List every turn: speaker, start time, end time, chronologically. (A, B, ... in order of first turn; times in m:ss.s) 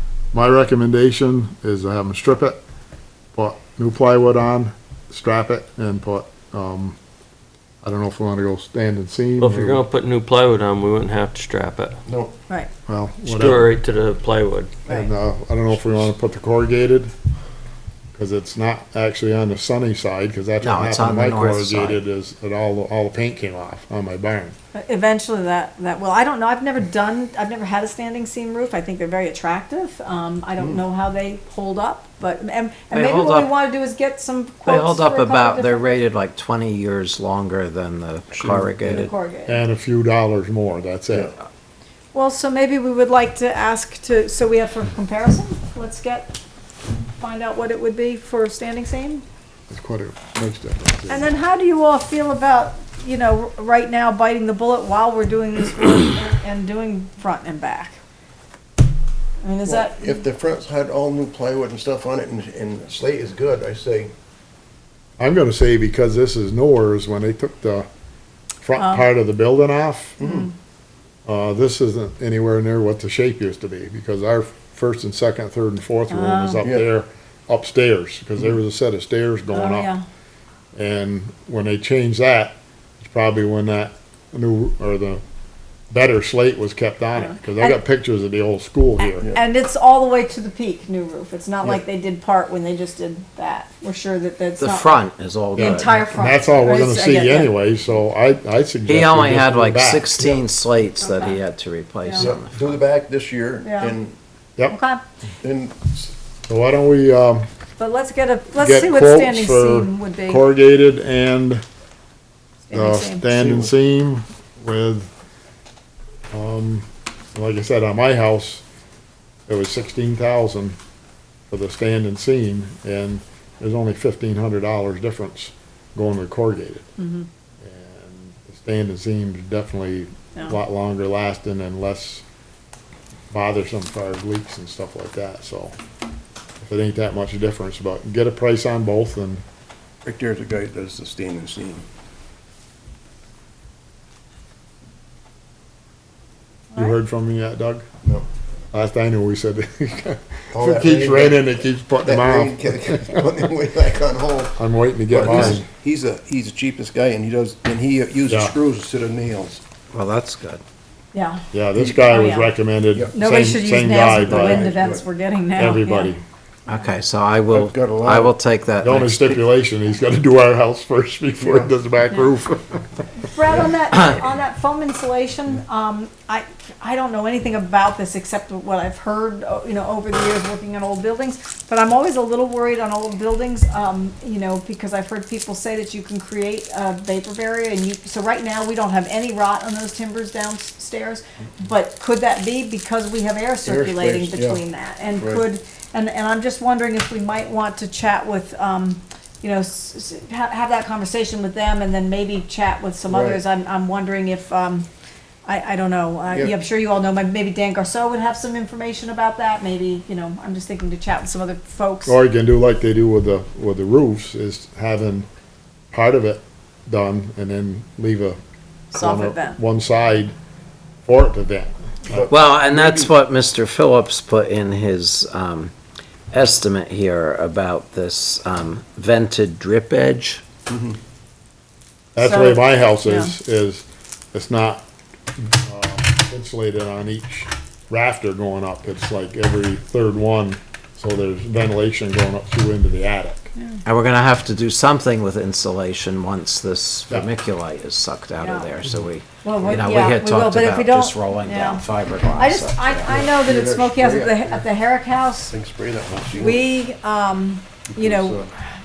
0:00.3-0:02.6 A
0:03.3-0:07.0 A
0:07.8-0:09.8 A
0:09.4-0:12.0 B
0:12.0-0:12.3 C
0:12.9-0:13.7 A
0:13.2-0:14.8 B
0:14.8-0:17.1 A
0:18.1-0:24.5 A
0:20.6-0:22.0 D
0:24.7-0:35.9 E
0:32.9-0:33.5 D
0:34.6-0:39.1 D
0:38.3-0:38.8 B
0:38.8-0:39.6 E
0:39.4-0:41.3 A
0:42.1-0:46.3 E
0:47.2-0:49.2 E
0:49.7-0:51.2 A
0:51.1-0:58.0 E
0:59.4-1:00.2 E
0:59.6-1:04.1 C
1:05.2-1:07.9 A
1:08.6-1:10.2 A
1:08.8-1:09.0 E
1:10.2-1:10.5 C
1:10.2-1:10.5 E
1:11.2-1:19.9 A
1:16.1-1:16.6 E
1:19.5-1:20.0 E
1:20.7-1:25.2 A
1:25.9-1:29.3 A
1:27.1-1:27.8 E
1:29.0-1:34.9 E
1:29.2-1:29.4 C
1:34.6-1:36.0 D
1:35.5-1:37.5 E
1:35.5-1:40.4 A
1:38.8-1:42.8 D
1:41.0-1:41.4 E
1:42.0-1:42.3 E
1:42.2-1:44.1 C
1:43.6-1:43.9 E
1:44.7-1:45.0 E
1:45.4-1:46.1 C
1:46.5-1:47.4 A
1:47.8-1:50.5 E
1:48.6-1:51.6 A
1:52.7-1:53.3 E
1:52.7-1:55.1 A
1:53.4-1:53.7 C
1:56.3-1:58.6 A
1:59.5-2:00.8 A
2:01.5-2:06.9 A
2:07.0-2:07.3 E
2:07.6-2:12.2 A
2:13.3-2:15.7 A
2:16.6-2:19.4 A
2:20.0-2:21.8 C
2:26.7-2:27.0 E
2:26.7-2:27.9 A
2:28.7-2:33.2 A
2:30.5-2:31.4 C
2:32.0-2:39.6 C
2:34.6-2:35.6 A
2:38.3-2:38.5 A
2:39.9-2:40.6 D
2:41.1-2:41.4 E
2:41.5-2:44.7 A
2:42.0-2:42.5 E
2:43.1-2:46.2 E
2:44.0-2:45.0 C
2:45.6-2:46.2 A
2:46.7-2:49.4 D
2:47.5-2:48.4 C
2:48.8-2:53.0 A
2:51.4-2:51.7 C
2:53.3-3:24.9 E
3:13.6-3:14.6 C
3:15.2-3:15.4 C
3:23.1-3:23.4 C
3:25.4-3:32.2 E
3:32.0-3:35.3 A
3:35.9-3:38.4 A
3:38.9-3:39.6 E
3:38.9-3:40.3 A
3:41.0-3:42.3 A
3:42.1-3:43.1 C
3:42.3-3:45.7 D
3:46.3-3:50.4 D
3:50.7-3:51.0 C
3:52.1-3:54.8 A
3:52.2-3:53.3 E
3:55.4-4:03.5 A
4:03.6-4:03.8 E
4:03.8-4:13.1 D
4:08.4-4:08.7 E
4:09.4-4:15.5 E
4:13.1-4:14.7 C
4:15.5-4:16.7 C
4:16.3-4:18.5 E
4:17.9-4:18.5 C